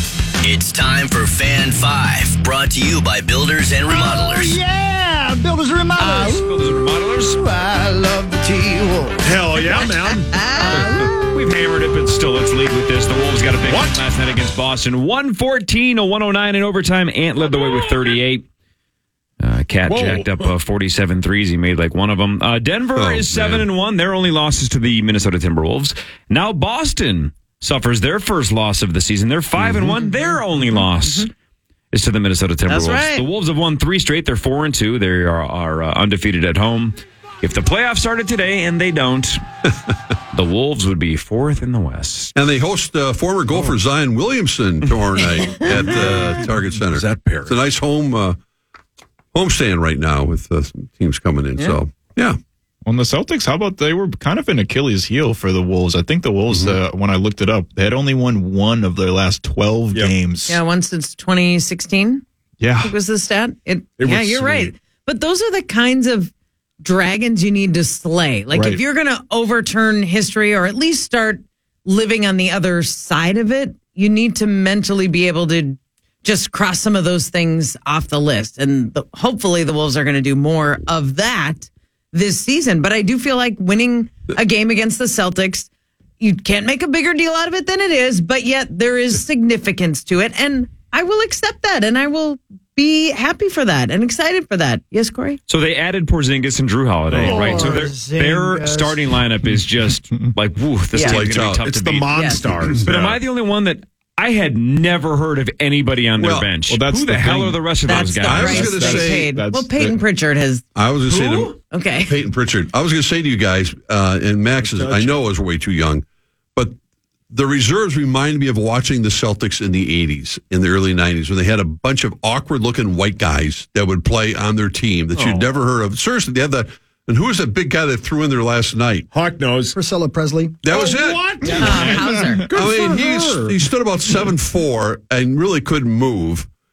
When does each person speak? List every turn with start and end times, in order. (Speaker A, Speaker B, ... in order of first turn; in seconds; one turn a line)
Speaker A: 0.4-4.6
Speaker B: 3.9-9.3
Speaker C: 6.0-7.4
Speaker D: 9.2-10.3
Speaker E: 9.8-10.8
Speaker B: 10.5-11.5
Speaker C: 10.8-18.4
Speaker D: 13.6-14.0
Speaker C: 19.4-31.3
Speaker D: 19.9-20.5
Speaker F: 22.9-23.7
Speaker F: 29.6-30.0
Speaker E: 31.0-31.3
Speaker C: 31.9-39.4
Speaker E: 32.7-33.2
Speaker C: 40.3-42.3
Speaker F: 42.3-48.4
Speaker D: 45.8-47.6
Speaker F: 49.3-52.4
Speaker G: 52.9-60.6
Speaker F: 56.5-56.8
Speaker E: 60.5-62.2
Speaker G: 62.6-62.9
Speaker E: 62.8-85.7
Speaker D: 64.0-64.7
Speaker D: 68.5-68.8
Speaker E: 86.2-95.4
Speaker C: 95.5-102.1
Speaker D: 97.1-97.9
Speaker B: 97.2-99.0
Speaker E: 100.9-101.2
Speaker F: 101.0-102.9
Speaker D: 101.7-103.2
Speaker E: 102.1-102.4
Speaker C: 102.8-108.8
Speaker F: 106.2-106.5
Speaker G: 106.7-107.5
Speaker E: 107.8-110.6
Speaker F: 108.2-109.3
Speaker G: 108.9-110.0
Speaker F: 110.7-116.0
Speaker C: 111.0-111.5
Speaker E: 111.7-112.1
Speaker D: 114.6-115.2
Speaker F: 117.3-129.1
Speaker D: 125.1-125.5
Speaker D: 129.1-129.7
Speaker B: 129.7-130.6
Speaker F: 130.6-131.7
Speaker D: 130.7-133.1
Speaker E: 131.5-132.4
Speaker G: 131.6-133.5
Speaker F: 132.5-136.5